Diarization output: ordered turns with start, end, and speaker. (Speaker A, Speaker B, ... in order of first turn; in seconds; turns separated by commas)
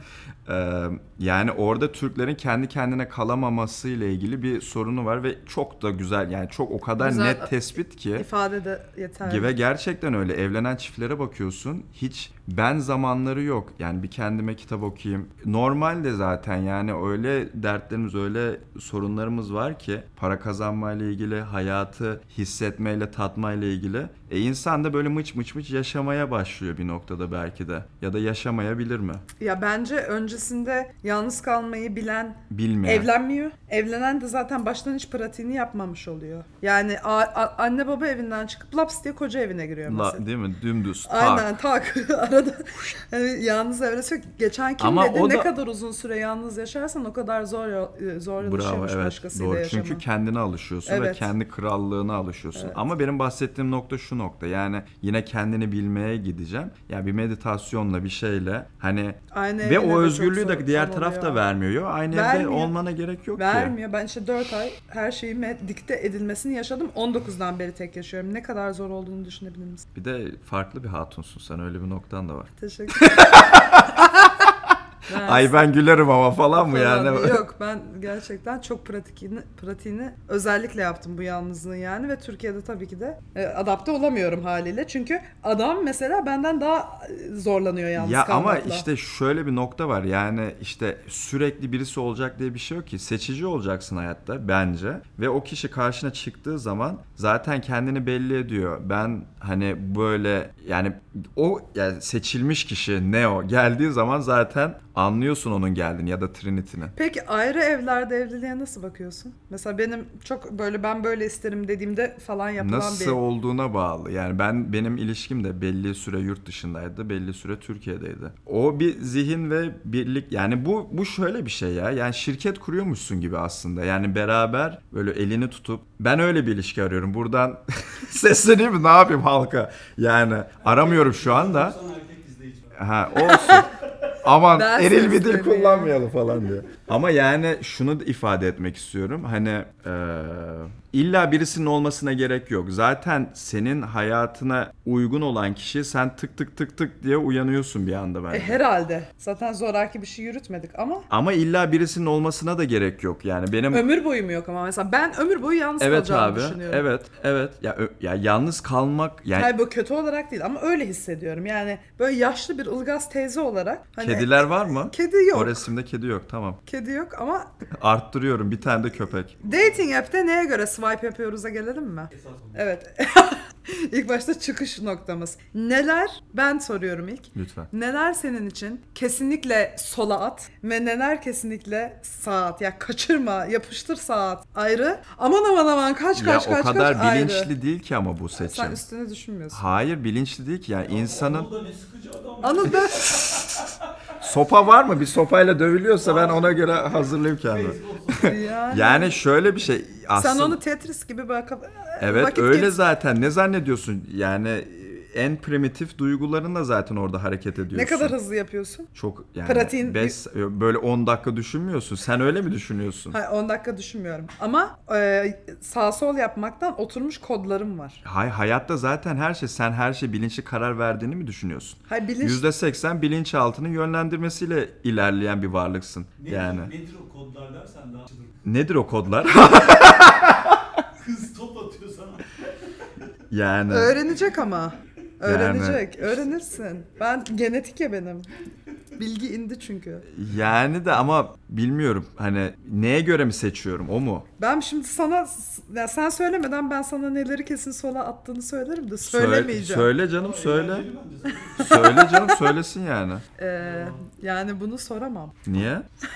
Speaker A: 0.5-8.3, Speaker B: 7.0-7.5, Speaker B: 8.1-9.5, Speaker A: 9.2-29.2, Speaker B: 29.4-40.2, Speaker A: 32.5-33.1, Speaker A: 39.9-41.5, Speaker B: 41.0-50.0, Speaker A: 44.8-45.5, Speaker A: 48.4-63.7, Speaker B: 50.9-51.3, Speaker B: 59.3-61.4, Speaker B: 62.1-62.7, Speaker B: 63.4-69.8, Speaker A: 69.9-74.5, Speaker B: 72.6-74.5, Speaker B: 75.1-75.5, Speaker A: 75.2-77.4, Speaker B: 76.6-88.8, Speaker A: 88.0-106.9, Speaker B: 106.9-113.2, Speaker A: 112.6-131.8, Speaker C: 130.6-133.8, Speaker A: 132.7-133.7, Speaker B: 133.2-133.6, Speaker A: 134.2-148.6, Speaker B: 134.5-136.0, Speaker B: 148.3-151.1, Speaker A: 151.1-153.9, Speaker B: 153.7-156.8, Speaker A: 155.8-159.5, Speaker B: 159.3-165.7, Speaker A: 164.0-166.6, Speaker B: 166.7-167.5, Speaker A: 167.7-169.4, Speaker C: 169.4-169.8, Speaker B: 169.4-187.5, Speaker C: 172.1-172.6, Speaker A: 177.3-177.7, Speaker A: 186.1-188.8, Speaker B: 188.3-189.6, Speaker A: 189.5-191.5, Speaker C: 190.9-193.9, Speaker B: 192.4-193.4, Speaker A: 194.2-200.6, Speaker C: 196.0-198.4, Speaker B: 198.2-199.2, Speaker B: 200.1-202.7, Speaker A: 202.0-208.1, Speaker B: 207.7-208.9, Speaker A: 208.9-213.2, Speaker B: 209.4-210.1, Speaker B: 213.1-218.0, Speaker A: 218.0-226.7, Speaker B: 221.9-222.4, Speaker C: 226.2-228.4, Speaker A: 228.4-230.6, Speaker C: 230.8-232.8, Speaker A: 233.3-234.0, Speaker B: 233.7-238.3, Speaker A: 235.2-235.8, Speaker C: 236.0-236.5, Speaker B: 239.0-240.0, Speaker A: 240.1-244.3, Speaker B: 244.4-249.9, Speaker A: 249.0-250.9, Speaker C: 250.0-251.9, Speaker A: 251.6-253.2, Speaker B: 251.6-252.5, Speaker B: 253.4-255.4, Speaker C: 253.6-254.0, Speaker A: 255.4-255.9